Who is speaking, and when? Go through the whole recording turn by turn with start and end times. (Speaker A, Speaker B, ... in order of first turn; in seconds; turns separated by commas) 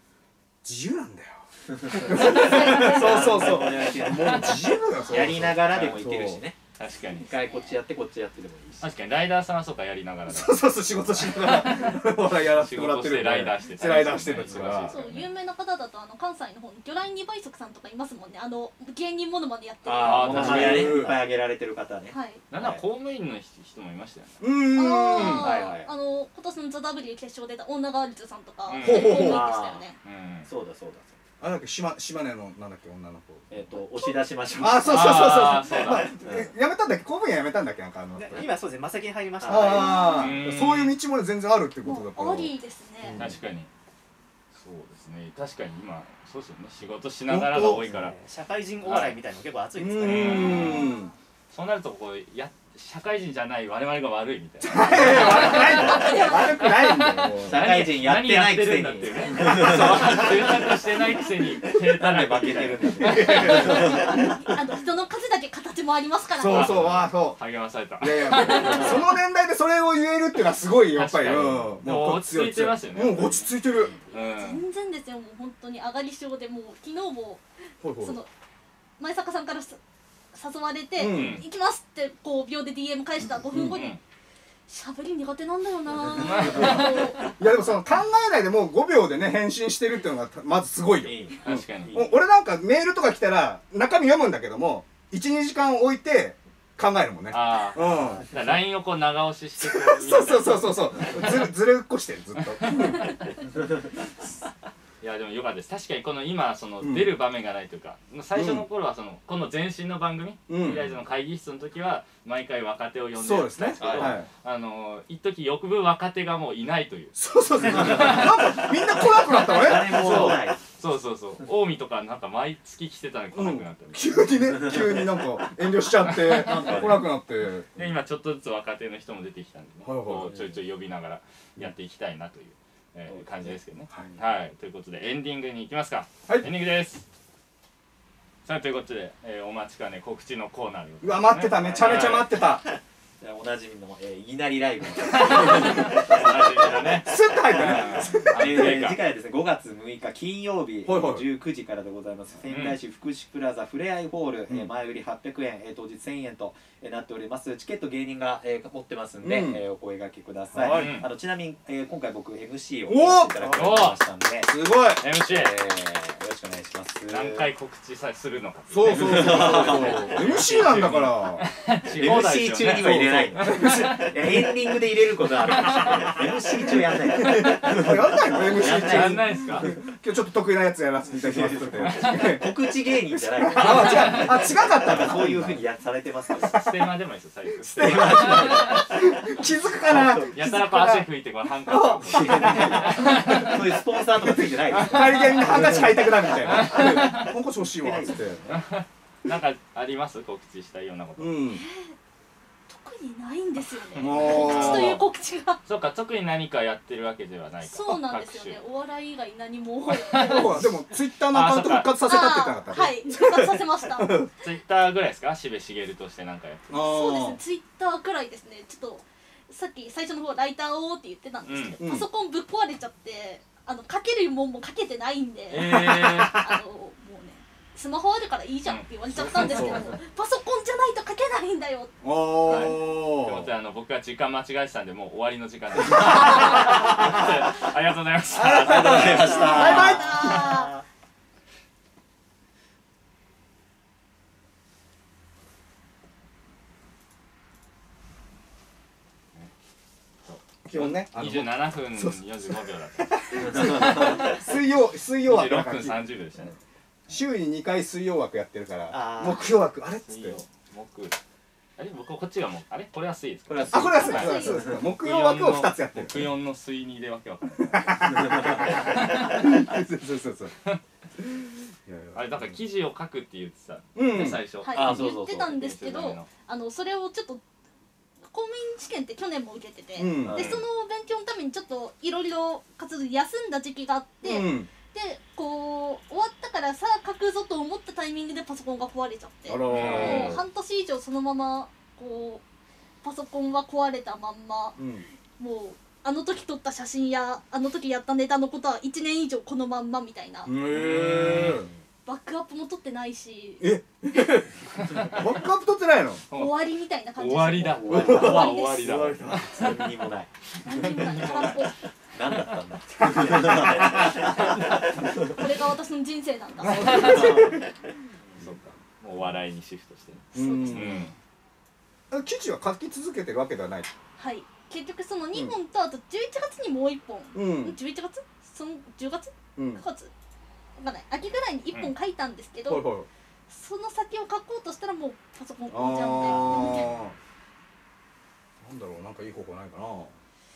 Speaker A: 0.6-1.4, Speaker B: 1.7-6.6, Speaker A: 1.9-6.4, Speaker C: 2.3-3.2, Speaker D: 6.8-7.3, Speaker C: 7.2-7.8, Speaker B: 7.2-8.9, Speaker D: 8.8-15.3, Speaker A: 10.3-14.9, Speaker C: 14.8-20.8, Speaker B: 19.8-22.8, Speaker D: 20.0-21.1, Speaker A: 20.3-21.2, Speaker C: 22.1-22.4, Speaker D: 22.5-24.4, Speaker A: 24.4-25.5, Speaker C: 24.7-30.0, Speaker D: 25.1-25.4, Speaker B: 25.1-25.9, Speaker D: 28.7-29.4, Speaker A: 28.8-29.4, Speaker B: 28.9-29.9, Speaker D: 30.0-30.5, Speaker B: 30.4-31.2, Speaker A: 31.4-33.6, Speaker B: 33.5-36.5, Speaker A: 34.6-38.5, Speaker D: 34.9-36.1, Speaker E: 38.1-40.2, Speaker A: 39.4-42.5, Speaker C: 39.5-40.4, Speaker D: 40.0-41.0, Speaker C: 41.8-43.2, Speaker D: 43.2-43.7, Speaker D: 44.5-48.2, Speaker A: 47.3-47.8, Speaker E: 47.9-50.8, Speaker D: 48.8-49.2, Speaker A: 49.8-51.1, Speaker D: 50.0-50.9, Speaker C: 50.4-51.1, Speaker D: 51.5-56.2, Speaker A: 54.6-57.6, Speaker C: 54.8-57.2, Speaker B: 57.4-60.6, Speaker D: 57.4-64.0, Speaker B: 61.7-64.5, Speaker A: 63.0-64.1, Speaker C: 63.2-66.8, Speaker A: 66.3-67.4, Speaker D: 66.4-69.0, Speaker A: 68.0-73.9, Speaker C: 68.3-69.0, Speaker D: 70.9-73.5, Speaker C: 74.1-77.4, Speaker D: 74.1-74.6, Speaker A: 77.8-78.2, Speaker C: 78.0-78.3, Speaker C: 79.0-79.8, Speaker C: 80.3-84.0, Speaker A: 81.0-81.4, Speaker D: 81.1-81.4, Speaker A: 83.5-83.8, Speaker D: 83.7-84.0, Speaker C: 84.7-87.3, Speaker D: 86.2-87.1, Speaker A: 86.3-98.2, Speaker B: 91.0-92.2, Speaker D: 91.4-92.1, Speaker D: 97.3-101.3, Speaker A: 99.6-103.1, Speaker D: 102.6-103.1, Speaker D: 105.0-117.1, Speaker A: 106.8-107.1, Speaker A: 108.3-108.6, Speaker A: 110.5-110.9, Speaker A: 113.2-114.3, Speaker B: 113.8-114.1, Speaker A: 117.1-120.4, Speaker B: 117.6-120.6, Speaker D: 117.7-124.2, Speaker A: 123.3-127.7, Speaker D: 126.1-126.7, Speaker B: 126.1-127.0, Speaker D: 127.7-137.0, Speaker A: 129.8-130.3, Speaker B: 130.3-130.5, Speaker D: 138.4-142.3, Speaker A: 141.0-142.6, Speaker B: 141.6-142.3, Speaker B: 143.2-164.5, Speaker D: 145.1-149.0, Speaker A: 145.3-146.0, Speaker A: 147.0-148.4, Speaker A: 150.8-151.2, Speaker D: 152.5-152.8, Speaker A: 159.2-159.6, Speaker D: 160.5-161.1, Speaker A: 160.6-160.9, Speaker A: 162.9-163.7, Speaker D: 163.4-164.0, Speaker A: 164.4-165.0, Speaker D: 165.0-165.5, Speaker B: 165.2-167.5, Speaker D: 167.1-174.3, Speaker A: 168.7-171.4, Speaker B: 168.9-170.1, Speaker B: 171.8-179.7, Speaker A: 172.8-173.9, Speaker D: 175.4-176.1, Speaker A: 177.2-182.4, Speaker D: 178.6-179.7, Speaker B: 181.1-186.6, Speaker D: 181.8-182.4, Speaker A: 183.5-185.6, Speaker D: 183.7-184.2, Speaker A: 186.4-186.7, Speaker D: 186.4-188.8, Speaker A: 187.6-191.1, Speaker B: 187.8-189.1, Speaker B: 189.8-190.3, Speaker D: 190.3-193.7, Speaker A: 191.7-193.5, Speaker B: 192.0-196.1, Speaker A: 194.2-198.4, Speaker D: 194.7-197.3, Speaker B: 197.8-198.6, Speaker D: 198.5-201.4, Speaker A: 201.2-201.6, Speaker C: 201.5-201.9, Speaker C: 202.7-205.6, Speaker D: 203.9-205.1, Speaker A: 204.0-205.0, Speaker D: 205.6-208.6, Speaker C: 207.6-210.6, Speaker D: 209.9-210.8, Speaker A: 210.1-214.3, Speaker D: 211.3-212.0, Speaker C: 212.0-214.3, Speaker D: 214.4-216.7, Speaker A: 216.7-217.4, Speaker C: 216.8-231.9, Speaker D: 221.4-221.8, Speaker A: 221.8-222.1, Speaker D: 225.5-226.4, Speaker D: 228.7-229.8, Speaker A: 229.2-229.9, Speaker A: 232.0-233.5, Speaker C: 232.5-232.7, Speaker D: 232.5-239.7, Speaker A: 236.0-237.3, Speaker A: 238.3-240.6, Speaker B: 238.6-240.8, Speaker C: 239.2-240.7, Speaker D: 250.2-254.4, Speaker A: 250.6-256.1, Speaker B: 253.4-254.2, Speaker D: 255.2-256.6, Speaker A: 257.1-260.4, Speaker B: 258.9-259.5, Speaker D: 260.1-261.2, Speaker D: 261.8-269.6, Speaker B: 263.5-264.8, Speaker A: 263.7-266.3, Speaker C: 263.9-264.7, Speaker A: 267.7-270.5, Speaker B: 268.1-268.7, Speaker A: 271.2-272.5, Speaker D: 272.1-276.3, Speaker A: 273.9-274.4, Speaker C: 274.6-277.4, Speaker B: 274.7-275.5, Speaker C: 278.3-292.4, Speaker A: 279.9-280.6, Speaker B: 280.2-280.6, Speaker A: 284.2-284.7, Speaker A: 289.5-290.4, Speaker D: 289.7-290.4, Speaker B: 289.8-290.4, Speaker C: 293.0-294.8, Speaker A: 294.8-295.1, Speaker C: 295.4-300.5, Speaker A: 300.4-301.7, Speaker D: 300.7-301.6, Speaker C: 302.1-303.7, Speaker A: 303.6-306.2, Speaker D: 304.8-305.2, Speaker D: 306.3-306.6, Speaker C: 306.3-309.1, Speaker D: 307.1-309.8, Speaker B: 307.6-311.5, Speaker A: 307.9-309.4, Speaker C: 310.6-311.7, Speaker D: 310.6-311.6, Speaker B: 312.1-315.3, Speaker A: 313.1-314.1, Speaker C: 315.0-317.5, Speaker A: 316.6-317.6, Speaker D: 316.7-317.5, Speaker B: 316.9-317.4, Speaker D: 318.4-321.1, Speaker A: 320.3-321.1, Speaker C: 320.3-321.1, Speaker A: 322.1-323.9, Speaker C: 324.2-330.1, Speaker A: 327.3-327.8, Speaker A: 329.6-329.8, Speaker C: 330.8-332.9, Speaker A: 332.6-333.1, Speaker C: 333.5-336.9, Speaker A: 335.7-337.1, Speaker B: 336.2-336.7, Speaker A: 338.6-340.1